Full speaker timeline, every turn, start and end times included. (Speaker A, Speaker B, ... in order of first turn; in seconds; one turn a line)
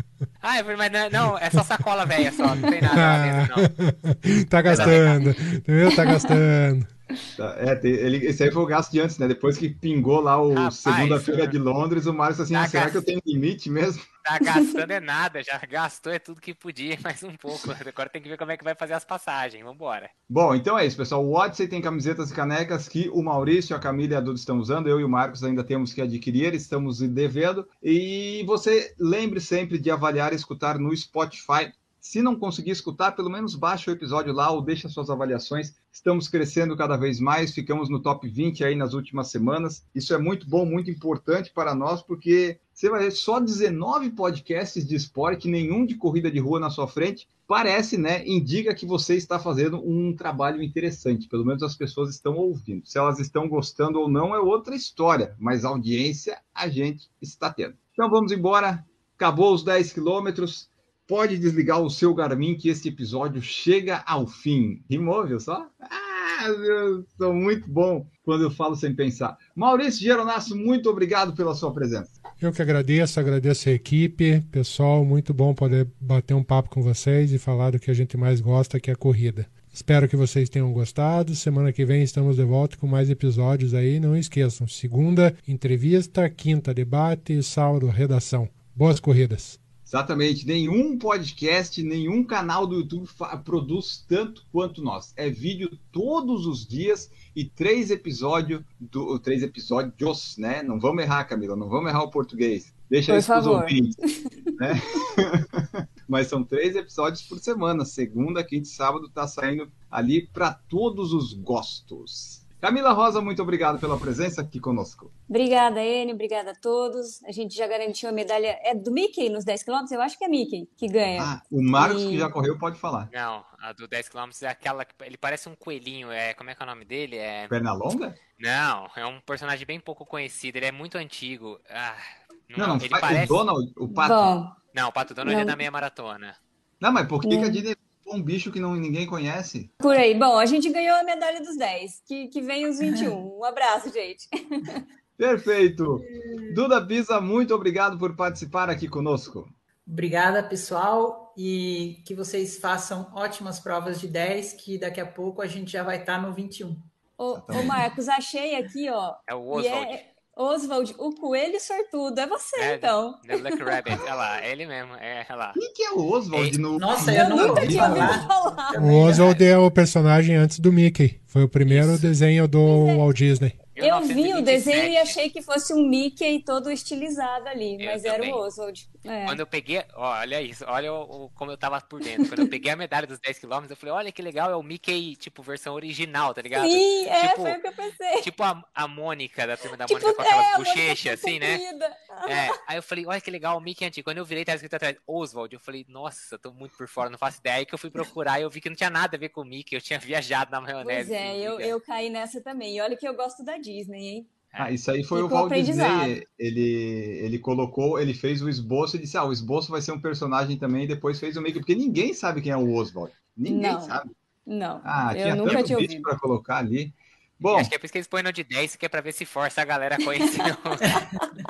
Speaker A: 0.4-3.7
Speaker B: 2.9-6.9
Speaker A: 4.7-5.2
Speaker C: 4.7-5.0
Speaker D: 5.9-6.2
Speaker C: 7.3-14.1
Speaker A: 10.5-11.6
Speaker A: 12.5-13.0
Speaker A: 14.2-20.1
Speaker C: 20.3-72.1
Speaker B: 72.4-89.6
Speaker C: 89.8-104.0
Speaker D: 103.1-104.5
Speaker C: 104.6-115.1
Speaker D: 115.3-122.3
Speaker C: 121.2-123.1
Speaker A: 123.1-127.5
Speaker C: 127.5-128.2
Speaker A: 128.4-133.4
Speaker C: 132.6-134.3
Speaker D: 133.9-134.6
Speaker A: 134.7-136.3
Speaker D: 135.2-135.6
Speaker C: 136.8-139.7
Speaker D: 137.2-137.6
Speaker D: 139.8-144.8
Speaker C: 145.2-149.5
Speaker E: 146.1-146.6
Speaker E: 149.9-156.8
Speaker D: 157.2-163.7
Speaker C: 157.3-157.8
Speaker A: 159.3-160.1
Speaker A: 162.6-165.6
Speaker C: 165.6-168.2
Speaker A: 166.3-166.6
Speaker E: 166.8-169.3
Speaker D: 167.1-168.8
Speaker B: 168.7-173.6
Speaker A: 169.1-169.4
Speaker A: 171.7-172.1
Speaker D: 172.6-173.0
Speaker A: 173.7-175.2
Speaker D: 173.7-179.4
Speaker A: 177.8-178.4
Speaker A: 179.2-187.6
Speaker D: 186.5-188.3
Speaker A: 188.2-191.6
Speaker D: 189.8-192.6
Speaker A: 192.2-201.7
Speaker D: 200.8-204.3
Speaker C: 204.6-214.1
Speaker D: 205.1-206.2
Speaker D: 213.5-216.1
Speaker C: 214.8-217.7
Speaker A: 217.5-221.0